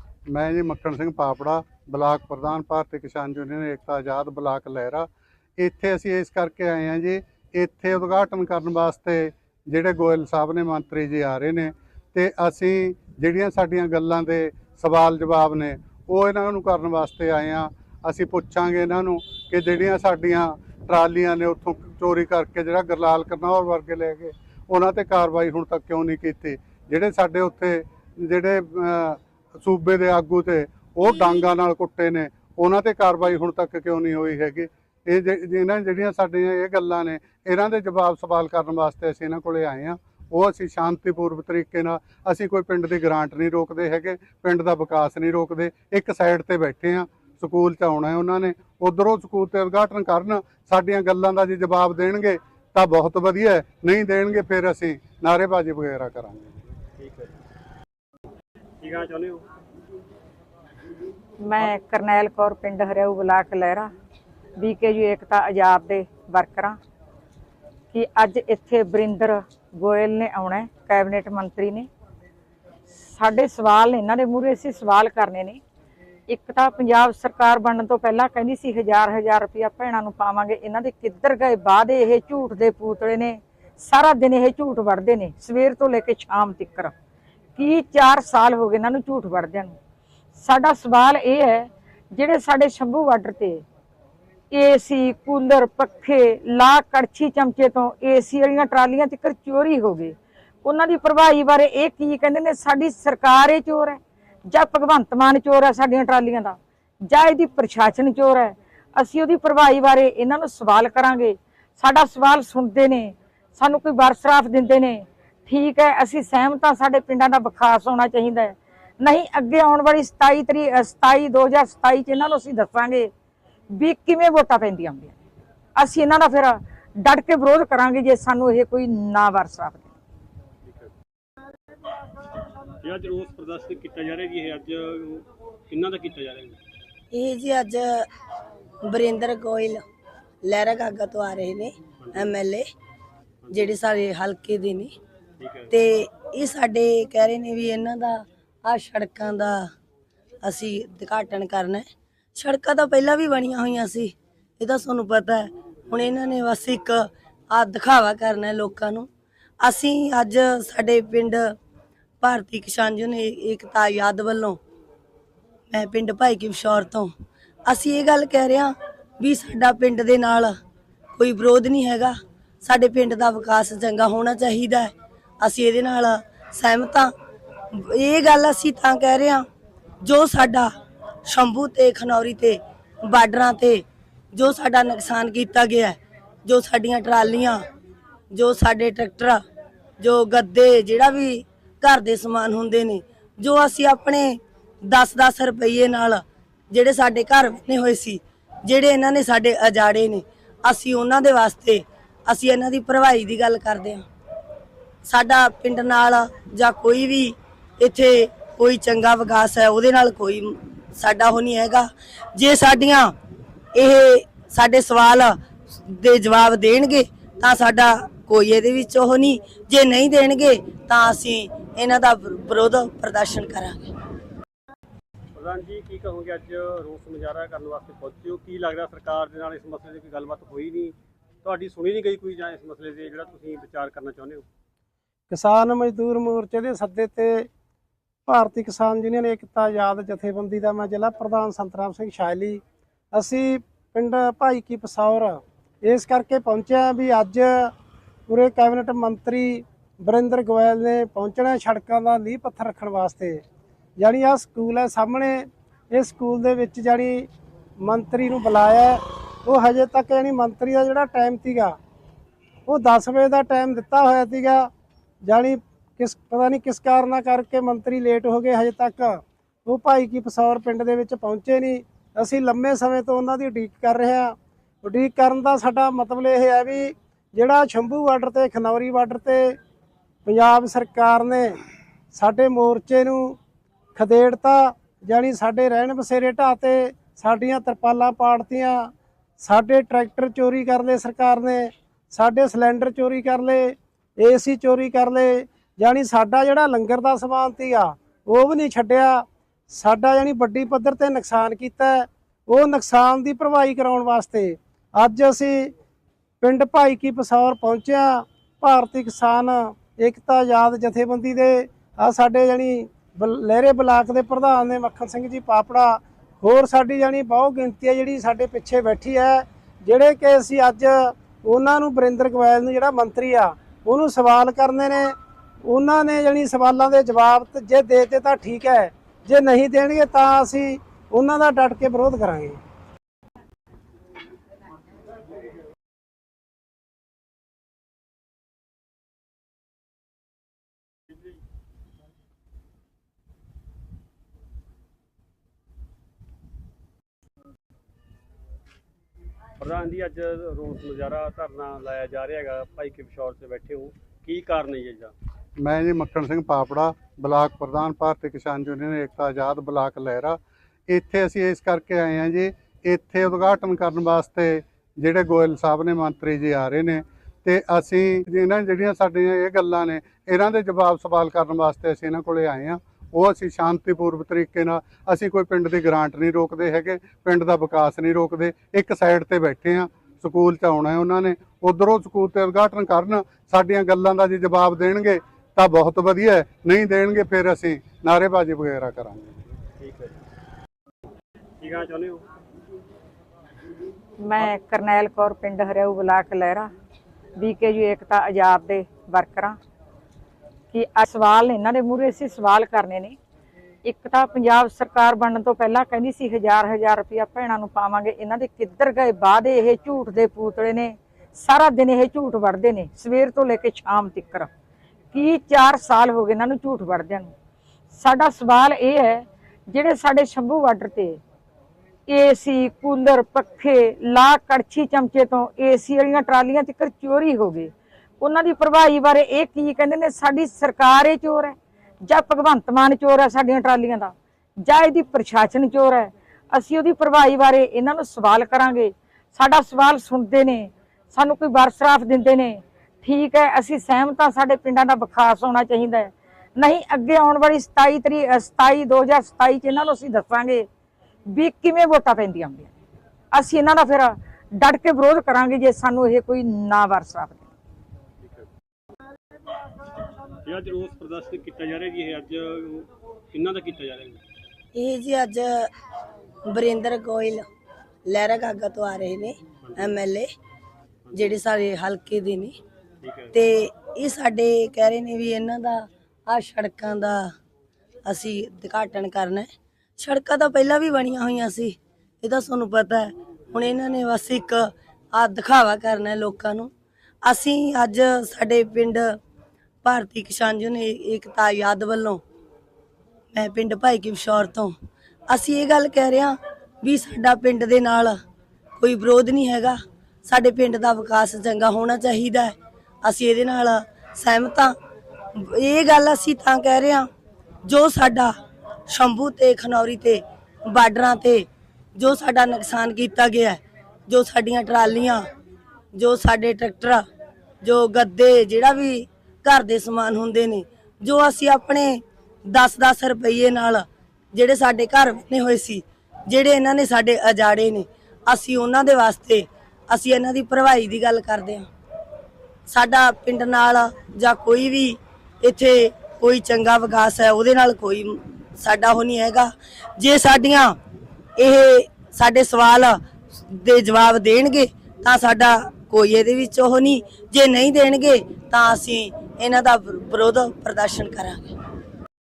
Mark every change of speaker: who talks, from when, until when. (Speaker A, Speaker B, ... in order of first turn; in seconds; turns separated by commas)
Speaker A: 0.3-56.6, Speaker B: 57.0-57.3, Speaker B: 58.8-59.4, Speaker C: 61.4-63.9, Speaker C: 64.6-66.8, Speaker C: 67.9-71.9, Speaker C: 72.9-75.6, Speaker C: 76.3-86.9, Speaker C: 87.6-89.8, Speaker C: 90.3-93.6, Speaker C: 94.5-123.1, Speaker C: 123.7-125.2, Speaker C: 125.8-129.9, Speaker B: 130.7-130.9, Speaker B: 132.8-136.6, Speaker D: 137.1-138.1, Speaker D: 138.8-139.8, Speaker D: 140.4-142.7, Speaker B: 142.0-142.4, Speaker B: 143.4-143.8, Speaker D: 143.5-145.0, Speaker B: 145.4-145.7, Speaker D: 145.7-149.7, Speaker D: 150.4-159.1, Speaker D: 159.6-161.6, Speaker D: 162.2-164.6, Speaker D: 165.7-167.2, Speaker D: 167.7-170.5, Speaker D: 171.2-177.1, Speaker D: 177.7-179.5, Speaker D: 180.0-180.7, Speaker D: 181.3-187.6, Speaker D: 188.3-189.4, Speaker D: 190.0-204.1, Speaker D: 205.1-213.1, Speaker D: 213.8-223.9, Speaker B: 225.3-234.4, Speaker E: 235.3-237.5, Speaker E: 238.3-242.6, Speaker E: 243.1-247.7, Speaker E: 248.3-253.4, Speaker E: 254.0-257.3, Speaker E: 257.8-261.8, Speaker E: 262.7-264.7, Speaker E: 265.2-279.6, Speaker E: 280.2-281.6, Speaker E: 282.1-283.4, Speaker E: 283.9-305.7, Speaker E: 306.4-325.1, Speaker E: 325.7-332.6, Speaker B: 349.6-355.1, Speaker A: 355.6-389.4, Speaker B: 389.8-390.2, Speaker B: 391.6-392.2, Speaker C: 394.2-396.7, Speaker C: 397.4-399.6, Speaker C: 400.7-403.2, Speaker C: 403.8-414.5, Speaker C: 415.1-417.3, Speaker C: 417.9-421.2, Speaker C: 422.1-450.7, Speaker C: 451.3-452.7, Speaker C: 453.3-457.4, Speaker B: 458.2-458.5, Speaker B: 460.4-464.2, Speaker D: 464.7-465.7, Speaker D: 466.5-467.4, Speaker D: 468.1-470.3, Speaker B: 469.6-470.0, Speaker B: 471.1-471.4, Speaker D: 471.1-472.6, Speaker B: 473.0-473.4, Speaker D: 473.3-477.3, Speaker D: 478.1-486.7, Speaker D: 487.2-489.2, Speaker D: 489.8-492.2, Speaker D: 493.3-494.8, Speaker D: 495.3-498.2, Speaker D: 498.8-504.8, Speaker D: 505.4-507.1, Speaker D: 507.6-508.4, Speaker D: 508.9-515.3, Speaker D: 515.9-517.0, Speaker D: 517.6-531.7, Speaker D: 532.7-540.8, Speaker D: 541.4-551.5